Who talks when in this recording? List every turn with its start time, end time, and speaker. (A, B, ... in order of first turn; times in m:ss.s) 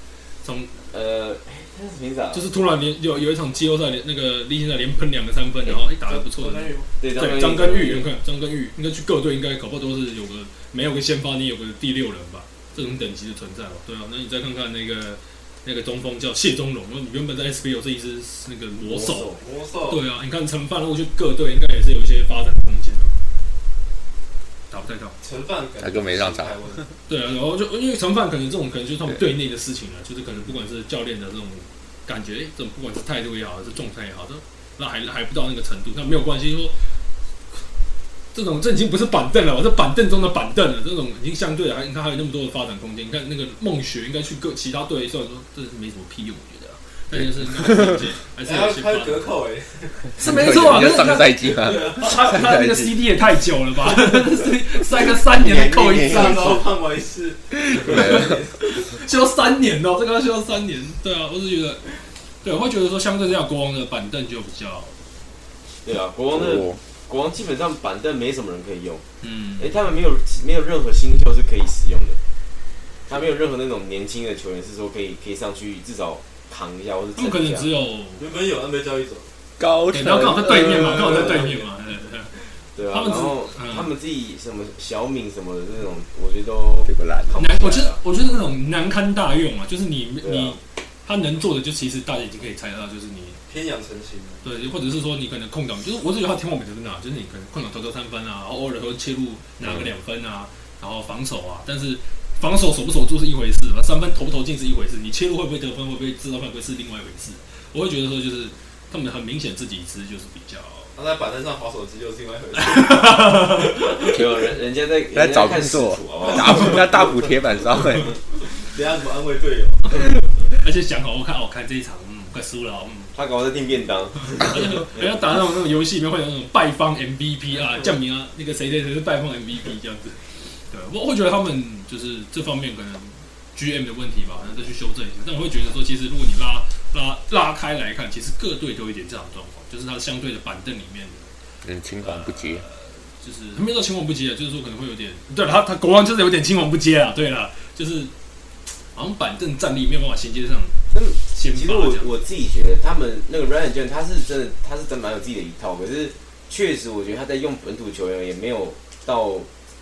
0:00.4-0:00.7 A
0:00.9-0:02.4 B
0:02.3-0:23.2 A
0:06.0-0:06.9 C
0:07.0-0:08.1 B
0:18.9-0:19.4 B
0:19.2-0:20.0 C
0:24.7-0:25.2 A
0:25.2-0:26.9 C
0:25.8-0:26.6 D
0:27.1-0:36.9 A
0:38.3-0:49.4 A
0:47.1-0:48.0 D
0:48.4-0:50.2 C
0:50.2-0:53.0 D
0:50.2-0:56.7 A
0:51.5-0:52.1 C
0:55.4-0:56.6 D
0:55.9-0:58.5 C
0:57.6-0:58.4 D
0:57.8-1:01.9 A
1:02.4-1:04.9 A
1:05.8-1:09.0 B
1:06.3-1:06.8 D
1:09.2-1:09.8 A
1:09.6-1:12.2 B
1:13.1-1:17.7 B
1:17.2-1:18.3 A
1:18.2-1:19.3 C
1:19.6-1:21.2 D
1:19.9-1:22.4 A
1:21.0-1:21.6 C
1:22.8-1:28.0 B
1:22.9-1:23.9 A
1:26.8-1:27.4 D
1:27.4-1:33.4 A
1:30.2-1:30.6 B
1:33.5-1:34.4 C
1:34.4-1:50.9 A
1:51.0-1:54.2 C
1:52.6-1:54.1 A
1:54.1-1:56.8 B
1:55.1-1:58.2 D
1:56.3-1:57.1 C
1:58.5-2:00.0 C
2:00.5-2:03.2 A
2:03.1-2:05.1 B
2:04.3-2:21.3 A
2:21.6-2:22.6 D
2:22.0-2:28.1 A
2:28.9-2:32.2 A
2:30.9-2:39.5 B